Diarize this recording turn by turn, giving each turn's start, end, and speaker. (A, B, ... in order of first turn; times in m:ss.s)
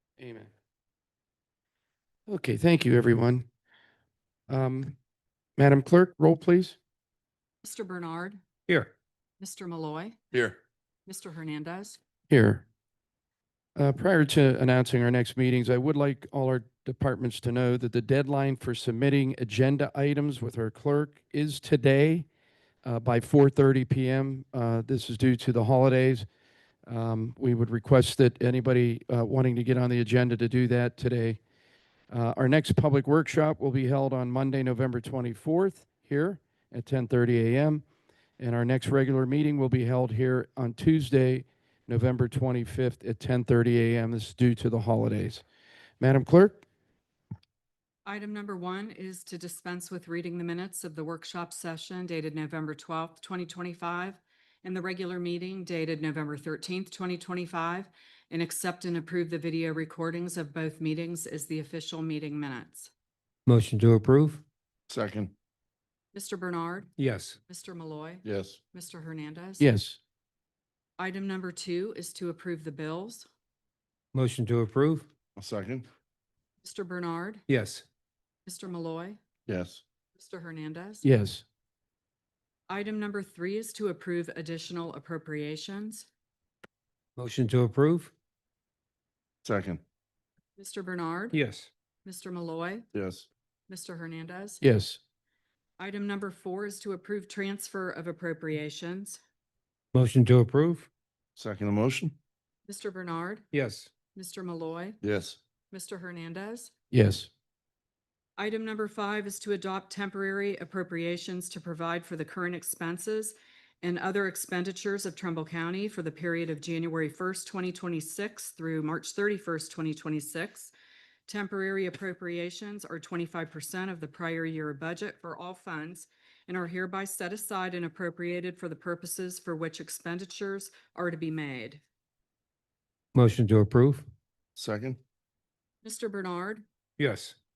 0:00.2-0:00.5 A
0:02.3-0:03.5 A
0:04.5-0:05.0 A
0:05.6-0:06.8 A
0:07.6-0:08.4 B
0:09.4-0:10.2 B
0:11.1-0:12.0 B
0:12.3-0:12.6 A
0:13.8-0:22.3 A
0:22.8-0:26.2 A
0:26.9-0:31.4 A
0:32.1-0:37.8 A
0:38.4-0:45.4 A
0:46.0-0:46.6 A
0:48.0-1:02.9 B
1:03.4-1:04.4 C
1:04.9-1:05.3 D
1:06.1-1:06.9 B
1:07.0-1:07.4 C
1:07.5-1:09.7 B
1:08.2-1:08.6 D
1:09.6-1:10.0 A
1:11.0-1:13.3 B
1:14.1-1:15.1 C
1:15.4-1:15.8 D
1:16.6-1:17.4 B
1:17.5-1:17.8 C
1:18.4-1:19.2 B
1:19.5-1:19.8 D
1:20.1-1:21.0 B
1:21.0-1:21.4 A
1:22.7-1:26.1 B
1:27.2-1:28.1 C
1:29.4-1:29.8 D
1:30.6-1:31.4 B
1:31.3-1:31.7 C
1:32.0-1:32.8 B
1:32.9-1:33.2 D
1:33.7-1:34.6 B
1:34.6-1:35.0 A
1:35.8-1:39.2 B
1:39.9-1:40.9 C
1:41.4-1:42.1 D
1:42.7-1:43.5 B
1:43.5-1:43.9 C
1:44.1-1:45.0 B
1:45.0-1:45.4 D
1:45.7-1:46.7 B
1:46.9-1:47.3 A
1:48.4-2:00.7 B
2:01.3-2:11.8 B
2:13.1-2:14.1 C
2:14.6-2:15.0 D
2:15.8-2:16.6 B
2:17.0-2:17.3 C